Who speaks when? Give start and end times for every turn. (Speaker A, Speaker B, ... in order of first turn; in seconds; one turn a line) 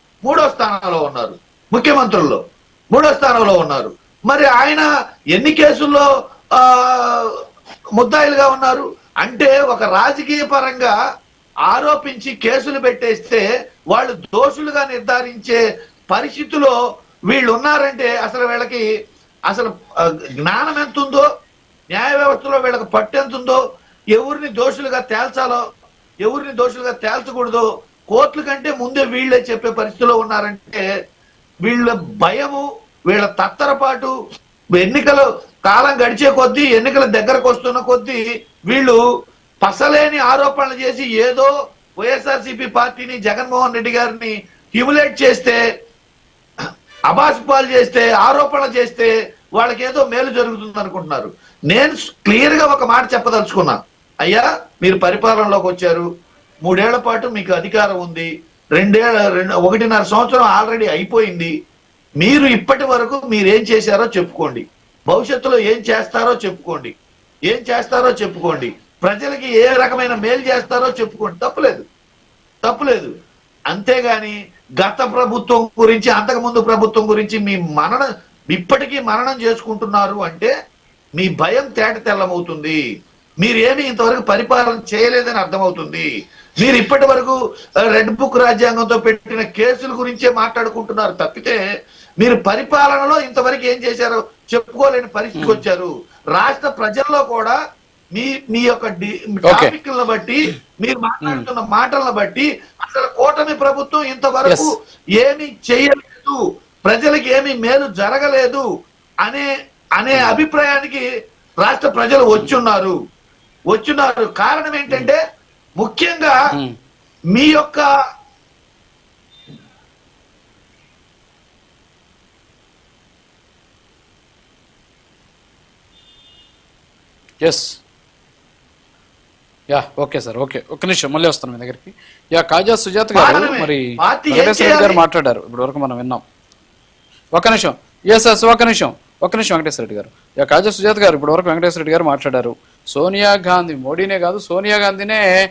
Speaker A: 0.2-2.4
Speaker A: 2.9-7.3
Speaker A: 8.0-10.9
Speaker A: 11.7-15.6
Speaker A: 16.1-16.7
Speaker A: 17.3-18.8
Speaker A: 20.4-21.2
Speaker A: 21.9-23.6
Speaker A: 24.1-25.6
Speaker A: 26.2-30.8
Speaker A: 31.6-34.1
Speaker A: 34.8-39.0
Speaker A: 39.6-45.6
Speaker A: 47.1-56.0
Speaker A: 56.6-61.5
Speaker A: 62.2-66.9
Speaker A: 67.5-71.8
Speaker A: 72.6-73.1
Speaker A: 73.7-80.5
Speaker A: 81.2-82.8
Speaker A: 83.4-86.1
Speaker A: 86.6-87.4
Speaker A: 87.9-91.6
Speaker A: 92.2-97.6
Speaker B: 95.4-95.6
Speaker A: 98.2-108.7
Speaker B: 99.5-99.7
Speaker A: 110.0-111.0
Speaker B: 110.1-110.4
Speaker A: 111.6-113.0
Speaker A: 113.7-115.2
Speaker A: 115.8-116.3
Speaker A: 117.3-117.8
Speaker B: 127.4-127.8
Speaker B: 129.7-136.2
Speaker A: 133.1-135.0
Speaker B: 137.3-145.2